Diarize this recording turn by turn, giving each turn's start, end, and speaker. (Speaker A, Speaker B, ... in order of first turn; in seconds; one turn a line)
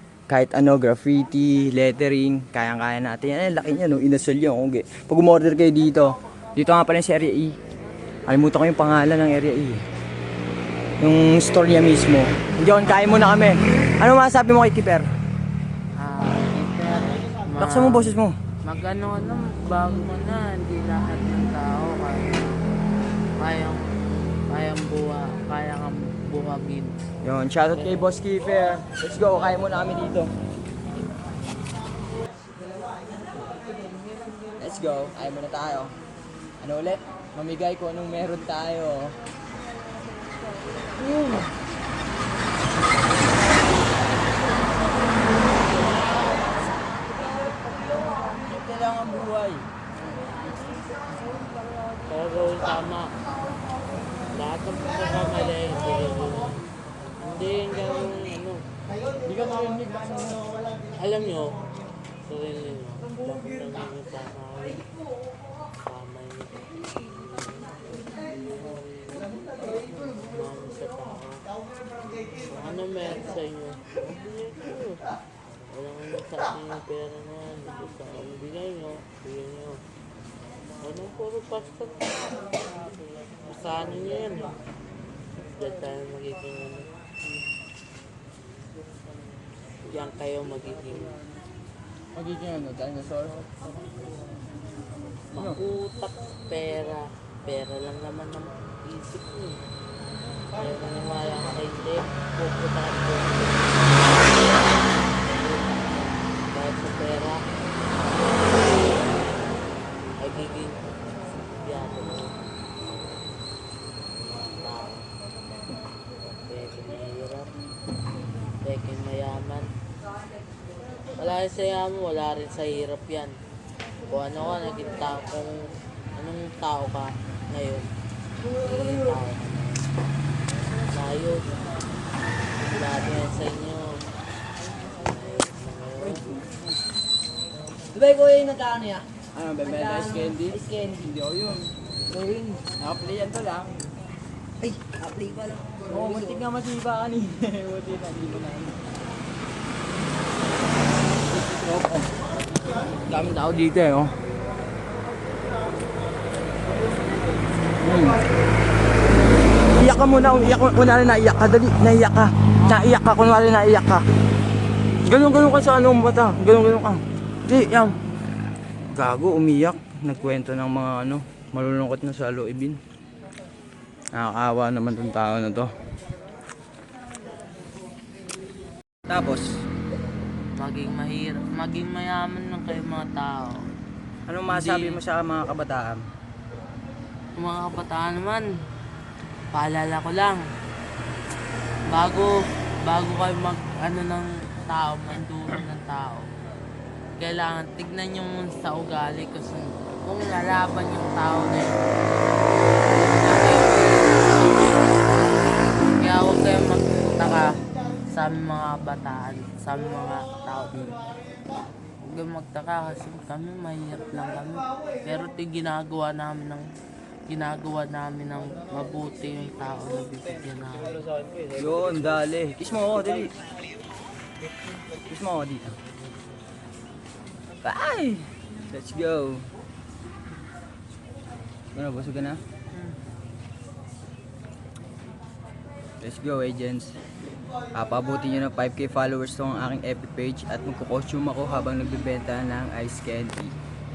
Speaker A: 0.3-7.5
Speaker A: 8.3-9.8
Speaker A: 11.0-15.1
Speaker B: 16.0-22.6
Speaker A: 17.6-18.3
Speaker B: 23.4-27.0
Speaker A: 27.2-30.3
Speaker B: 27.7-28.1
Speaker A: 34.6-35.9
Speaker A: 36.6-39.1
Speaker A: 41.0-41.5
Speaker A: 48.1-49.7
Speaker B: 52.0-53.1
Speaker B: 54.3-56.6
Speaker B: 57.2-58.6
Speaker A: 59.2-60.4
Speaker B: 61.0-64.9
Speaker B: 65.8-71.5
Speaker B: 72.3-75.1
Speaker B: 75.7-79.8
Speaker B: 80.8-84.6
Speaker B: 85.4-86.9
Speaker B: 89.8-91.2
Speaker A: 92.2-93.5
Speaker A: 95.3-95.6
Speaker B: 95.3-99.7
Speaker B: 100.6-107.4
Speaker B: 108.0-109.4
Speaker B: 110.2-112.3
Speaker B: 114.2-115.1
Speaker B: 116.2-117.5
Speaker B: 118.6-119.7
Speaker B: 121.2-123.3
Speaker B: 124.1-127.9
Speaker B: 128.5-129.9
Speaker B: 130.9-131.8
Speaker B: 132.6-134.0
Speaker B: 134.9-136.3
Speaker A: 136.0-136.6
Speaker C: 137.9-139.1
Speaker A: 138.3-138.6
Speaker A: 139.3-141.7
Speaker C: 139.7-141.1
Speaker C: 142.1-142.6
Speaker A: 142.6-143.8
Speaker C: 144.6-146.4
Speaker A: 144.6-148.8
Speaker A: 151.3-152.1
Speaker A: 153.1-154.1
Speaker A: 157.8-158.2
Speaker A: 159.7-164.0
Speaker A: 165.1-167.9
Speaker A: 168.9-172.8
Speaker A: 174.2-175.7
Speaker A: 179.1-179.5
Speaker B: 180.6-183.7
Speaker A: 184.3-186.0
Speaker B: 184.5-185.0
Speaker B: 187.4-188.5
Speaker B: 189.5-190.4
Speaker B: 191.9-196.2
Speaker B: 197.2-201.8
Speaker B: 202.9-205.1
Speaker B: 205.8-207.6
Speaker B: 208.1-211.0
Speaker B: 212.0-216.7
Speaker B: 217.3-221.1
Speaker A: 221.5-223.3
Speaker A: 225.1-225.8
Speaker A: 227.6-229.4
Speaker A: 231.7-232.4
Speaker B: 232.7-233.0
Speaker A: 236.0-236.9
Speaker A: 237.8-243.5